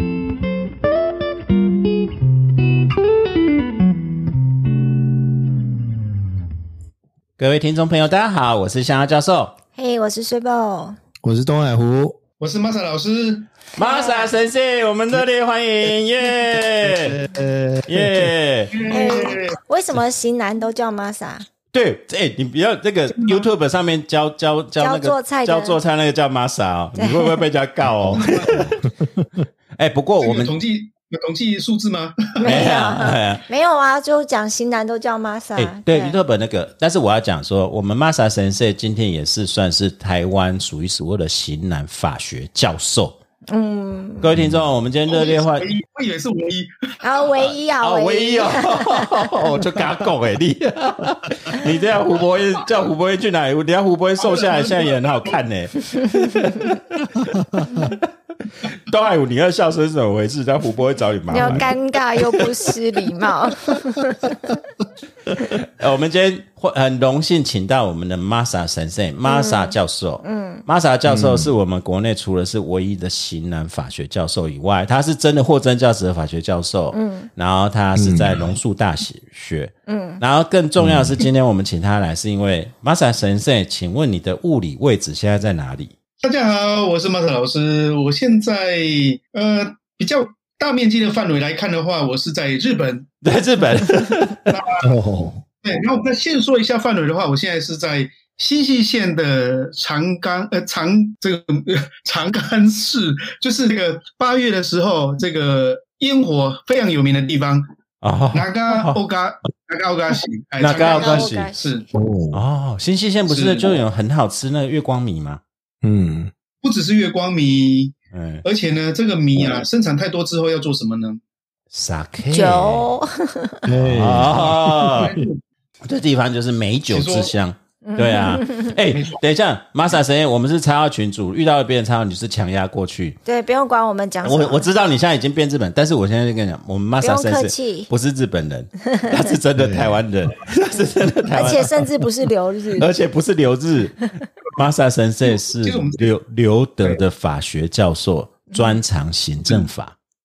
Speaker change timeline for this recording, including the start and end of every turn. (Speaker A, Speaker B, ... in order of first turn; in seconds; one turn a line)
Speaker A: 7.4-9.6
Speaker B: 9.8-11.0
Speaker C: 11.2-12.2
Speaker D: 12.4-13.5
Speaker A: 13.8-17.2
Speaker B: 13.8-14.3
Speaker C: 16.8-18.3
Speaker A: 17.9-18.8
Speaker D: 18.7-19.6
Speaker B: 18.9-21.4
Speaker A: 21.7-28.9
Speaker D: 23.2-23.4
Speaker B: 24.8-25.8
Speaker B: 27.0-27.4
Speaker D: 28.1-28.6
Speaker A: 29.8-30.5
Speaker D: 30.2-32.6
Speaker B: 32.4-36.2
Speaker A: 32.4-33.4
Speaker A: 35.5-43.2
Speaker B: 43.5-44.2
Speaker A: 44.2-45.7
Speaker C: 44.4-44.6
Speaker D: 45.1-47.5
Speaker B: 47.0-49.5
Speaker A: 47.8-61.7
Speaker D: 54.2-55.4
Speaker B: 61.3-64.3
Speaker A: 65.5-85.9
Speaker B: 69.2-70.6
Speaker C: 71.1-71.5
Speaker B: 76.9-77.3
Speaker C: 78.0-78.6
Speaker B: 79.9-80.2
Speaker C: 80.8-81.2
Speaker D: 86.2-93.1
Speaker A: 93.2-94.5
Speaker D: 94.5-94.9
Speaker C: 94.8-95.4
Speaker D: 95.6-107.7
Speaker A: 108.0-109.0
Speaker D: 108.3-111.8
Speaker A: 110.6-111.5
Speaker B: 110.7-111.8
Speaker C: 111.9-112.4
Speaker A: 112.3-115.4
Speaker D: 113.3-113.8
Speaker C: 115.8-116.3
Speaker D: 116.6-121.2
Speaker A: 118.1-118.4
Speaker A: 121.7-122.9
Speaker B: 122.3-123.7
Speaker C: 123.7-125.3
Speaker A: 123.8-125.1
Speaker D: 125.0-125.3
Speaker A: 125.8-133.2
Speaker D: 126.9-127.3
Speaker B: 127.8-128.7
Speaker D: 128.9-129.2
Speaker B: 133.2-134.7
Speaker A: 134.2-141.7
Speaker B: 137.0-137.9
Speaker B: 138.9-139.2
Speaker C: 139.6-140.0
Speaker B: 141.3-142.8
Speaker A: 142.8-149.9
Speaker D: 145.6-146.1
Speaker B: 148.5-148.8